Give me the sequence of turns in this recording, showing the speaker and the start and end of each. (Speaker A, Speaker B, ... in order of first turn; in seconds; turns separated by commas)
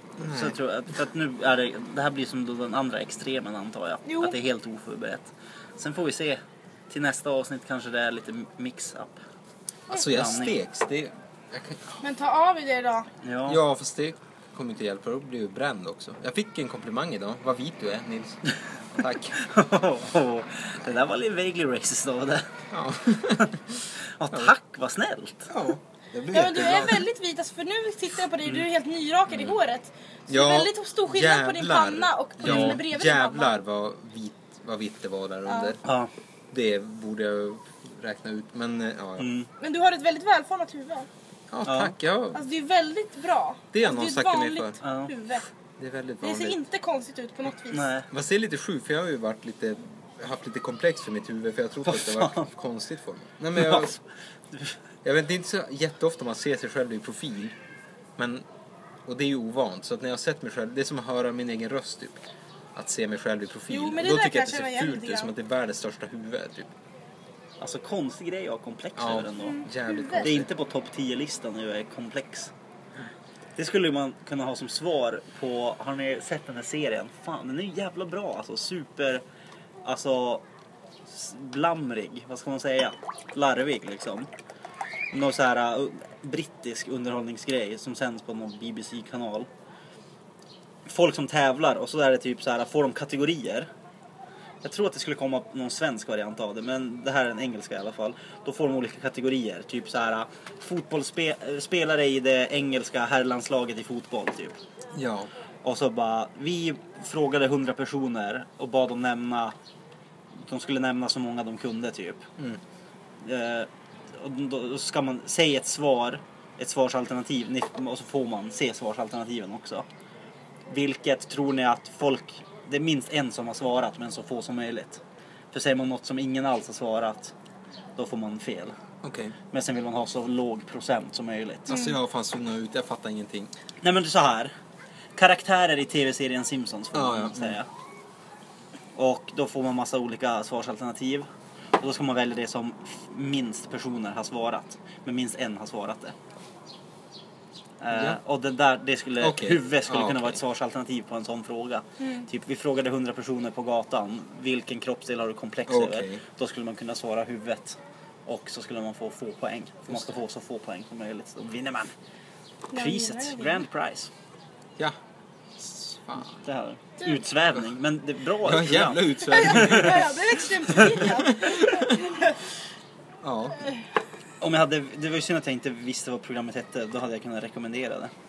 Speaker A: 0.2-0.6, Speaker B: 0.3-9.2, Speaker C: 4.0-4.3, Speaker A: 9.9-12.0, Speaker B: 10.1-10.6, Speaker C: 12.0-13.1, Speaker B: 13.2-13.6, Speaker A: 13.4-19.4, Speaker B: 19.3-22.5, Speaker A: 22.7-24.5, Speaker B: 23.4-25.5, Speaker A: 25.5-27.1, Speaker C: 26.3-33.5, Speaker A: 29.3-29.6, Speaker A: 30.3-35.9, Speaker B: 32.4-32.8, Speaker C: 35.5-35.7, Speaker B: 35.8-36.1, Speaker A: 36.5-39.3, Speaker B: 39.2-39.5, Speaker C: 39.6-41.1, Speaker A: 41.5-42.4, Speaker B: 41.6-41.9, Speaker C: 42.3-45.4, Speaker A: 43.7-44.8, Speaker B: 44.8-45.1, Speaker A: 45.8-46.6, Speaker C: 46.2-47.9, Speaker B: 47.7-48.1, Speaker A: 48.1-54.0, Speaker B: 51.9-52.5, Speaker B: 53.5-54.8, Speaker A: 55.0-57.6, Speaker A: 58.2-58.4, Speaker A: 59.0-62.2, Speaker A: 62.7-66.7, Speaker C: 63.7-65.3, Speaker B: 67.6-72.5, Speaker A: 68.9-70.5, Speaker C: 69.4-70.3, Speaker B: 73.5-79.2, Speaker B: 79.8-80.4, Speaker B: 81.1-84.3, Speaker B: 85.1-89.5, Speaker B: 90.8-93.7, Speaker B: 94.6-104.6, Speaker A: 104.9-105.3, Speaker B: 105.6-109.5, Speaker B: 110.5-112.2, Speaker B: 113.2-119.8, Speaker B: 120.7-127.3, Speaker B: 128.0-128.8, Speaker A: 129.0-129.3, Speaker B: 129.5-131.7, Speaker C: 131.7-132.0, Speaker A: 131.7-133.5, Speaker B: 133.8-134.5, Speaker B: 135.2-137.7, Speaker A: 136.9-137.6, Speaker B: 138.9-141.3, Speaker B: 141.8-146.1, Speaker B: 147.8-161.9, Speaker A: 147.9-148.2, Speaker A: 149.2-150.4, Speaker C: 152.0-152.3, Speaker A: 155.7-156.2, Speaker A: 159.9-160.1, Speaker C: 162.7-163.6, Speaker B: 162.7-164.1, Speaker A: 165.6-166.5, Speaker B: 166.4-170.0, Speaker A: 168.4-172.0, Speaker C: 169.3-172.4, Speaker B: 170.7-171.0, Speaker A: 173.2-173.7, Speaker B: 174.4-178.1